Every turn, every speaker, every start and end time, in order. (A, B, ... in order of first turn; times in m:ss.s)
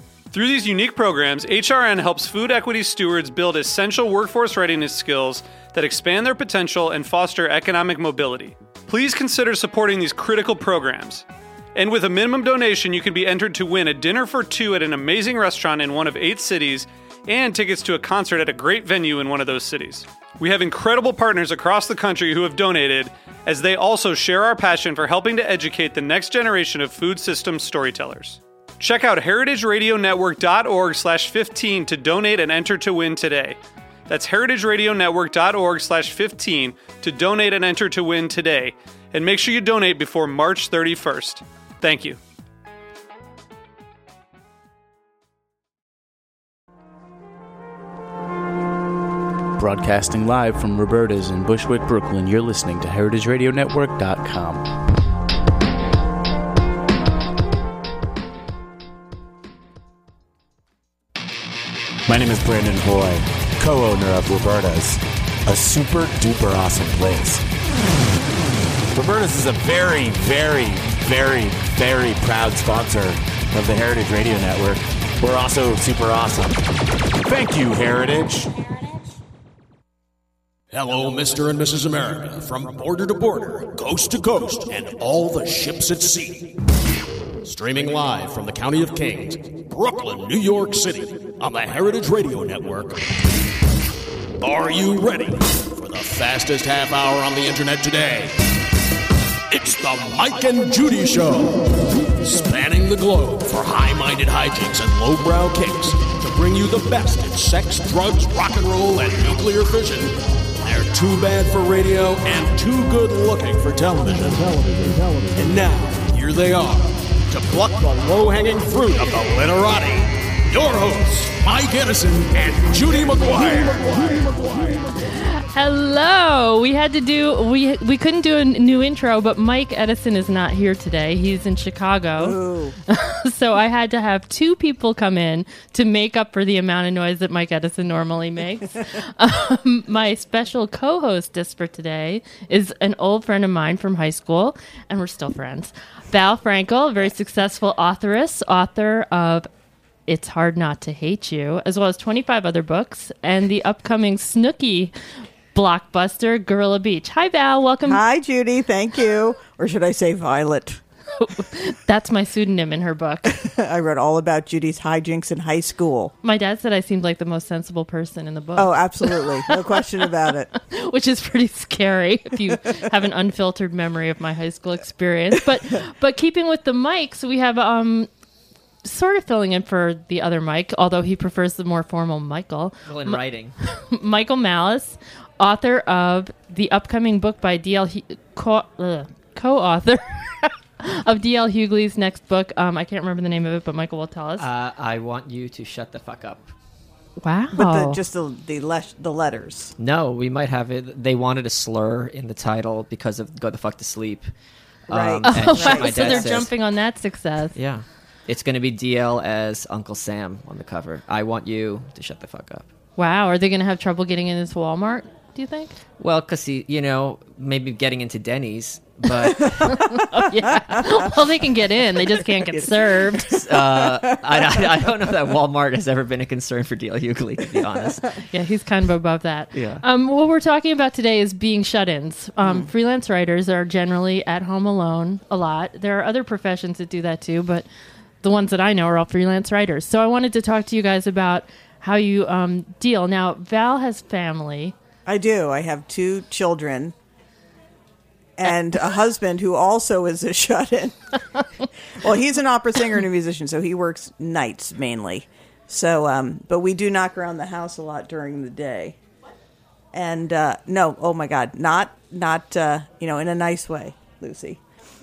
0:00.3-0:42.2 A
0:49.6-0:54.7 B
1:02.0-1:07.4 C
1:08.9-1:16.6 C
1:17.2-1:18.6 C
1:20.7-1:26.5 D
1:27.4-1:33.1 D
1:34.4-1:38.4 D
1:39.5-2:04.9 D
2:05.1-2:29.5 E
2:12.2-2:12.8 F
2:30.1-2:34.9 E
2:35.5-2:38.0 E
2:37.8-2:40.8 F
2:41.2-2:43.3 E
2:43.3-2:46.1 F
2:46.2-2:49.6 E
2:48.6-2:50.5 F
2:50.6-2:58.1 E
2:58.8-3:14.4 E
3:02.8-3:03.5 G
3:14.4-3:16.5 G
3:17.2-3:18.0 E
3:17.5-3:19.7 F
3:19.8-3:24.3 G
3:24.9-3:26.5 G
3:24.9-3:26.4 F
3:25.2-3:27.5 E
3:27.6-3:32.6 G
3:33.0-3:35.8 E
3:36.0-3:39.9 G
3:39.6-3:43.4 E
3:43.2-3:48.2 G
3:43.8-3:44.6 F
3:48.3-3:57.6 E
3:49.5-3:49.8 G
3:58.2-4:04.7 E
4:05.0-4:06.9 F
4:08.4-4:11.0 F
4:12.0-4:19.0 F
4:19.9-4:24.6 F